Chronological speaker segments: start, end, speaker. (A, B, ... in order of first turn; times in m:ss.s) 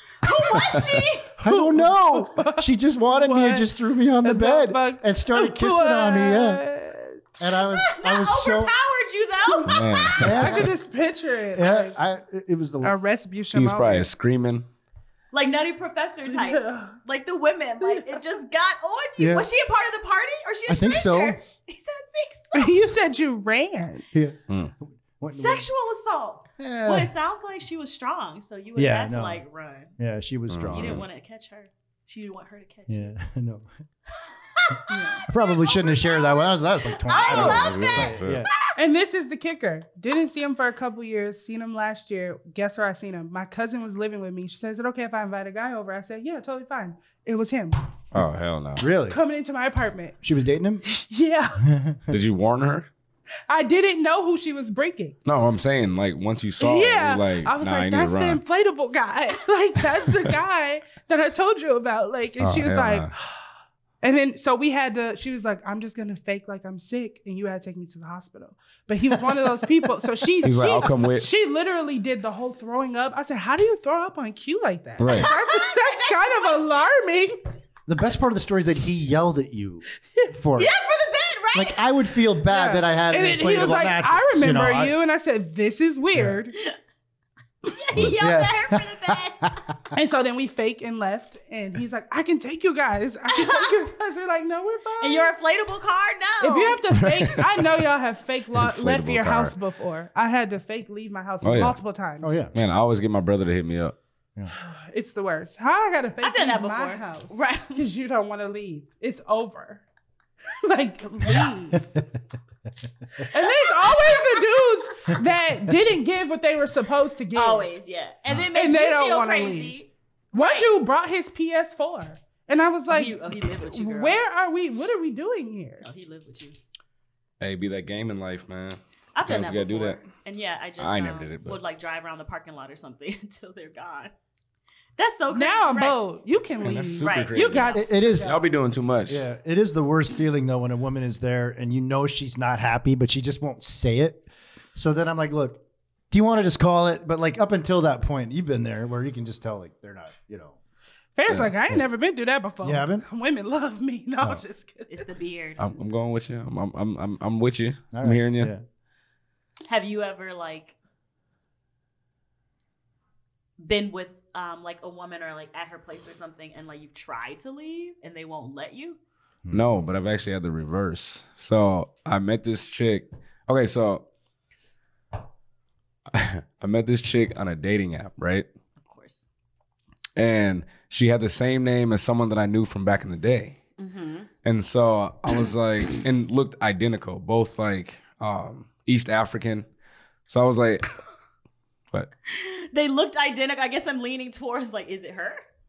0:00.2-0:01.3 A
0:00.6-0:01.0 B
0:01.4-0:06.6 C
0:01.4-0:03.7 D
0:04.2-0:07.3 D
0:07.4-0:08.7 C
0:07.7-0:10.2 A
0:09.5-0:11.9 D
0:09.6-0:10.6 B
0:10.2-0:10.7 C
0:11.5-0:12.9 C
0:12.8-0:14.1 D
0:13.5-0:14.6 B
0:15.3-0:22.7 A
0:16.3-0:17.0 D
0:17.8-0:18.2 D
0:19.2-0:19.5 C
0:20.7-0:21.4 C
0:22.5-0:24.0 D
0:24.1-0:25.7 C
0:25.3-0:29.9 A
0:26.6-0:27.1 C
0:28.8-0:29.4 C
0:30.0-0:31.0 C
0:30.5-0:31.0 B
0:30.7-0:33.1 A
0:32.9-0:33.7 C
0:34.2-0:38.7 A
0:34.9-0:35.2 D
0:35.3-0:38.5 C
0:37.2-0:38.4 B
0:38.8-0:47.8 D
0:48.1-0:48.9 B
0:48.8-0:49.2 C
0:49.1-0:50.2 D
0:50.2-0:50.8 C
0:50.8-0:51.6 D
0:51.6-0:52.2 C
0:52.1-0:52.9 B
0:53.5-0:55.2 D
0:55.2-0:58.4 B
0:56.6-1:03.2 D
1:02.4-1:03.1 B
1:04.0-1:17.4 D
1:10.4-1:11.3 B
1:15.0-1:15.3 B
1:15.1-1:16.9 A
1:17.9-1:20.7 C
1:20.6-1:21.8 A
1:21.5-1:25.0 C
1:22.5-1:26.5 D
1:27.6-1:29.5 A
1:28.0-1:29.9 C
1:29.9-1:35.3 D
1:33.3-1:33.7 A
1:35.0-1:36.8 A
1:36.4-1:42.4 D
1:36.9-1:37.8 B
1:38.5-1:39.5 B
1:41.4-1:41.8 B
1:42.2-1:42.5 C
1:42.5-1:43.9 B
1:44.5-1:49.8 D
1:46.2-1:47.9 A
1:50.6-1:52.0 D
1:53.2-1:57.7 D
1:53.4-1:54.8 A
1:57.3-2:00.7 A
1:58.5-1:59.8 D
2:00.3-2:05.9 D
2:02.9-2:04.2 A
2:05.8-2:06.6 A
2:07.4-2:10.0 B
2:09.1-2:14.1 A
2:10.8-2:11.6 B
2:15.0-2:16.0 A
2:15.3-2:18.4 D
2:16.6-2:19.2 B
2:17.0-2:18.3 A
2:17.7-2:18.3 C
2:19.1-2:30.6 C
2:31.2-2:35.1 D
2:32.6-2:33.0 C
2:34.9-2:35.8 A
2:35.6-2:38.5 B
2:37.9-2:38.6 C
2:39.7-2:40.8 A
2:43.6-2:49.0 A
2:49.5-2:54.0 B
2:56.1-2:58.4 B
2:58.8-2:59.3 A
3:00.2-3:03.6 B
3:03.8-3:04.3 A
3:04.4-3:09.7 B
3:10.3-3:10.9 B
3:12.3-3:15.4 A